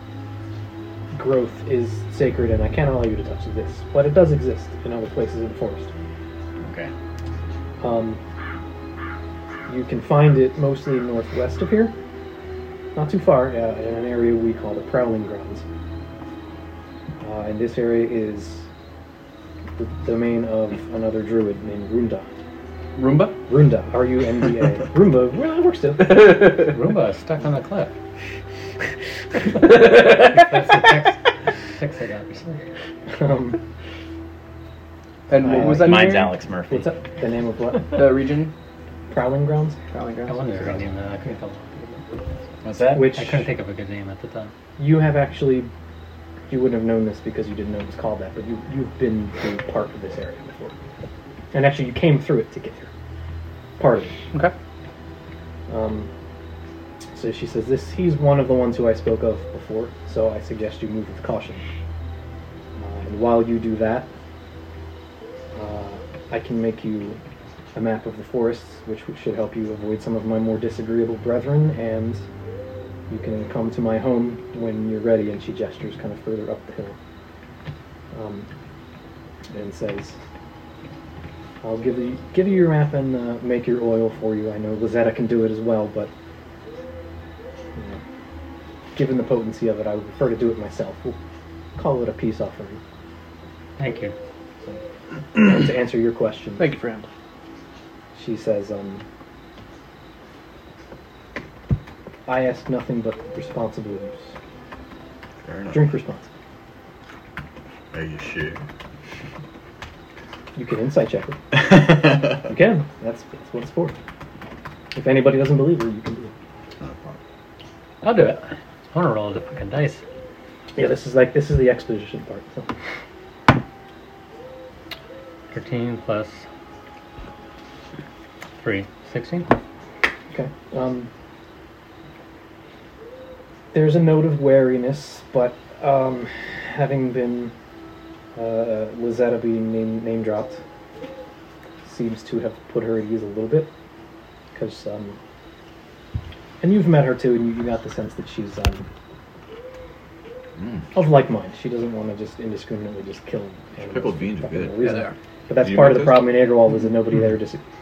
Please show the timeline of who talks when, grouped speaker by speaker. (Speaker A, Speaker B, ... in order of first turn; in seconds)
Speaker A: 1.1-5.9, 7.8-8.2, 9.7-11.9, 12.9-15.6, 17.2-18.7, 19.8-22.3, 23.5-26.7, 33.1-33.6, 35.4-36.1, 36.7-38.1, 39.1-39.8, 42.9-43.4, 44.8-45.7, 46.5-50.7, 51.5-52.9, 53.8-54.2, 55.7-56.1, 57.1-61.6, 62.8-64.1, 65.5-67.2, 67.7-72.2, 73.1-77.0, 78.1-78.5, 79.5-80.2, 81.6-86.1, 88.9-91.2, 91.8-92.8, 95.3-96.6, 98.1-99.0, 102.2-104.3, 105.7-106.3, 110.5-113.9, 114.9-116.3, 120.7-122.7, 130.3-131.1, 133.7-137.5, 138.3-140.6, 141.8-143.7, 144.5-145.2, 146.6-148.9, 150.9-157.6
Speaker B: 6.6-6.9, 35.5-36.9, 42.6-43.2
Speaker C: 22.9-23.4, 29.5-30.6, 35.3-36.3, 37.9-38.5, 39.9-40.8, 96.6-97.1
Speaker D: 26.6-27.9, 29.8-32.6, 40.3-42.2, 43.1-44.5, 93.8-94.1, 118.0-120.0, 125.5-126.4, 128.6-129.5
Speaker E: 105.4-105.9, 107.9-108.6, 116.8-117.2, 150.6-150.9, 153.8-156.4